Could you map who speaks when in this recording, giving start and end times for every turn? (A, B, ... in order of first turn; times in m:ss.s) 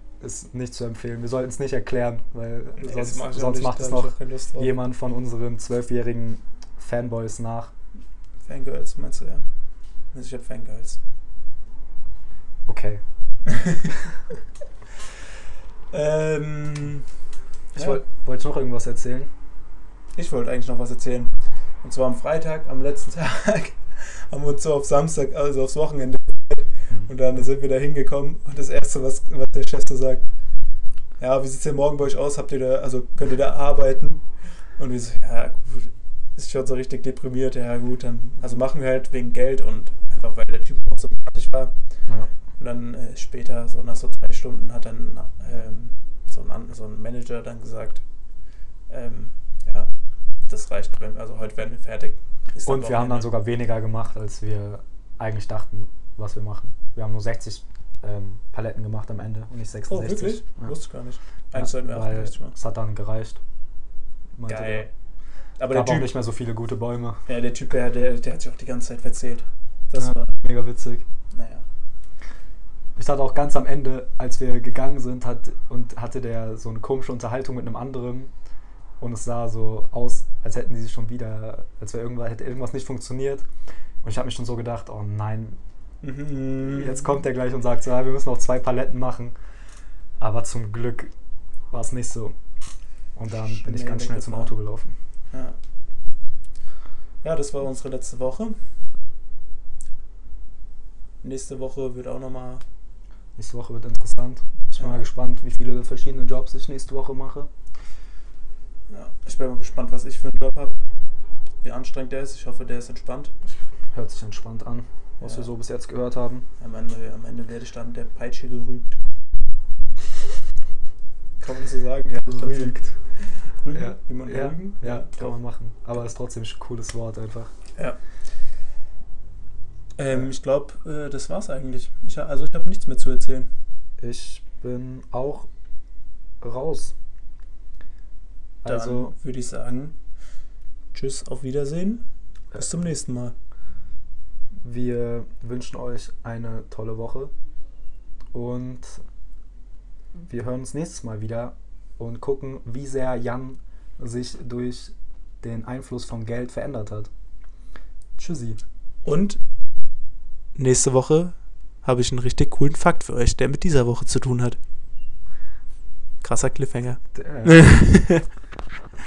0:00.2-0:07.7 A
0:02.8-0:04.7 B
0:08.4-0:09.4 B
0:10.1-0:11.0 B
0:12.7-0:13.0 A
0:13.5-0:14.0 B
0:15.9-0:17.0 B
0:17.7-0:18.0 B
0:17.7-0:19.3 A
0:20.2-0:21.3 B
0:21.8-0:30.2 B
0:31.2-0:34.2 B
0:34.8-0:41.7 B
0:42.6-0:48.0 B
0:48.9-0:49.9 B
0:50.5-0:53.3 B
0:52.6-1:00.7 A
0:59.9-1:02.5 B
1:01.5-1:03.4 A
1:04.4-1:04.9 A
1:04.4-1:04.9 B
1:05.6-1:06.2 B
1:05.7-1:07.2 A
1:07.3-1:10.3 B
1:10.0-1:11.0 A
1:11.3-1:11.6 B
1:13.0-1:18.3 A
1:19.0-1:23.4 A
1:24.0-1:25.6 A
1:26.0-1:27.1 B
1:26.6-1:29.3 A
1:30.2-1:31.1 A
1:31.7-1:32.4 A
1:33.2-1:34.9 A
1:33.3-1:34.5 B
1:35.3-1:35.6 B
1:37.2-1:38.6 B
1:41.2-1:42.6 B
1:43.4-1:47.5 A
1:44.8-1:45.0 B
1:48.9-1:50.8 B
1:51.6-1:53.4 B
1:53.9-1:56.5 A
1:55.2-1:55.5 B
1:56.6-1:59.0 B
2:01.4-2:05.3 B
2:02.1-2:02.9 A
2:03.7-2:07.5 A
2:10.0-2:13.5 B
2:14.0-2:15.5 A
2:16.4-2:16.9 A
2:18.6-2:19.1 A
2:18.6-2:20.0 B
2:20.9-2:23.3 B
2:24.6-2:27.3 A
2:28.3-2:29.0 A
2:30.2-2:37.1 A
2:38.2-2:38.6 A
2:39.0-2:39.4 B
2:40.6-2:44.6 B
2:46.2-2:48.3 B
2:47.1-2:47.6 A